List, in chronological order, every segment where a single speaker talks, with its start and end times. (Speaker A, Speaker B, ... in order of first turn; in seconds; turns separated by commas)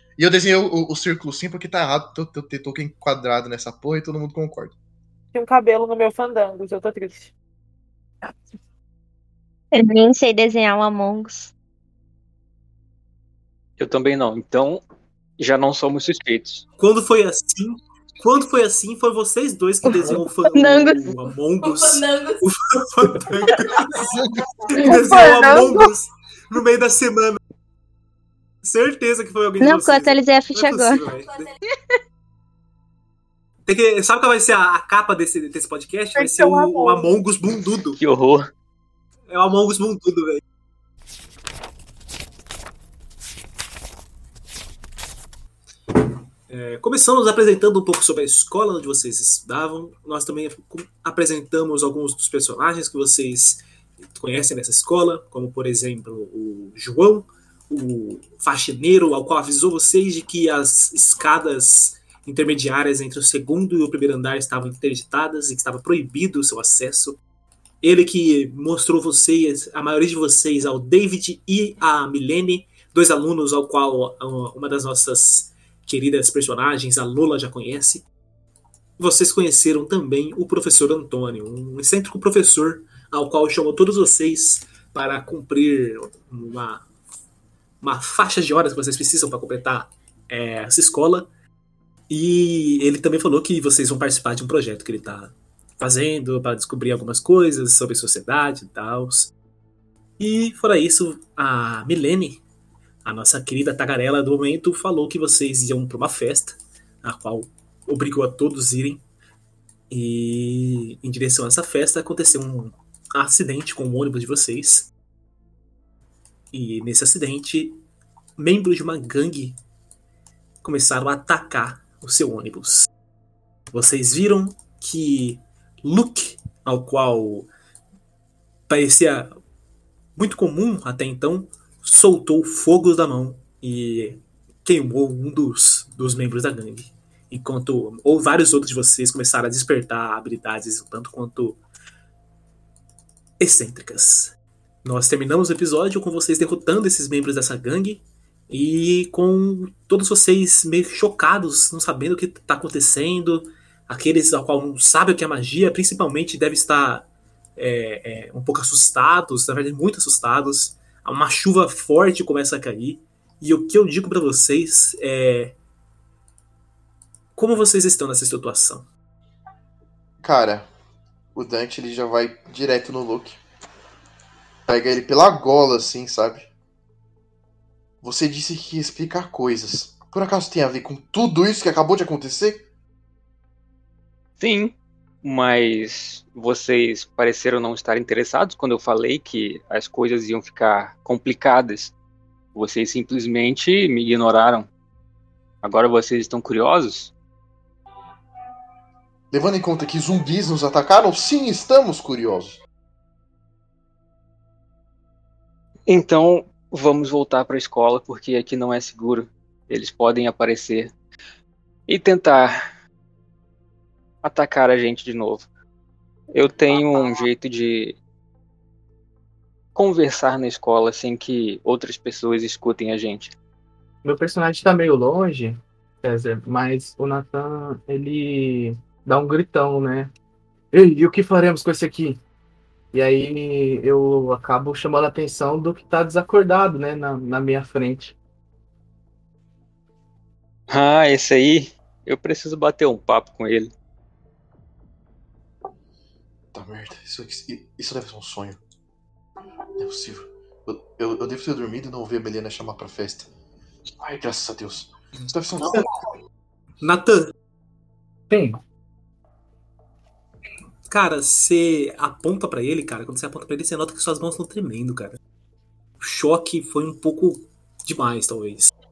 Speaker A: 0.2-4.7, Speaker B: 5.3-7.3, Speaker C: 9.7-11.5, Speaker D: 13.8-14.8, Speaker D: 15.4-16.6, Speaker E: 16.8-24.1, Speaker C: 19.8-21.1, Speaker A: 23.9-24.5, Speaker E: 24.7-27.4, Speaker C: 24.8-25.9, Speaker E: 28.6-31.5, Speaker C: 29.6-31.2, Speaker E: 33.6-38.0, Speaker B: 36.1-37.1, Speaker D: 38.0-38.5, Speaker E: 39.3-40.4, Speaker E: 46.5-53.6, Speaker E: 54.1-67.2, Speaker E: 67.8-78.1, Speaker E: 79.0-86.8, Speaker E: 87.8-91.3, Speaker E: 92.1-99.3, Speaker E: 100.2-102.4, Speaker E: 103.0-109.0, Speaker E: 109.9-114.9, Speaker E: 116.5-117.8, Speaker E: 118.4-119.6, Speaker E: 120.6-122.9, Speaker E: 123.7-127.5, Speaker E: 128.7-129.3, Speaker E: 130.2-141.6, Speaker E: 143.4-144.3, Speaker E: 144.8-165.6, Speaker E: 167.3-168.9, Speaker A: 170.2-170.7, Speaker A: 171.3-173.4, Speaker A: 174.7-176.5, Speaker A: 178.0-182.6, Speaker D: 184.4-191.9, Speaker D: 192.5-194.7, Speaker D: 195.6-197.1, Speaker A: 199.3-202.6, Speaker D: 205.9-210.9, Speaker D: 211.9-212.6, Speaker D: 214.2-215.5, Speaker D: 216.3-218.0, Speaker D: 219.7-223.3, Speaker F: 224.0-230.1, Speaker F: 230.7-232.2, Speaker F: 232.9-238.1, Speaker D: 240.7-243.7, Speaker A: 246.5-248.6, Speaker A: 249.8-253.3, Speaker A: 254.0-255.9, Speaker E: 256.8-257.3, Speaker F: 258.3-258.6, Speaker E: 260.9-265.2, Speaker E: 266.0-268.7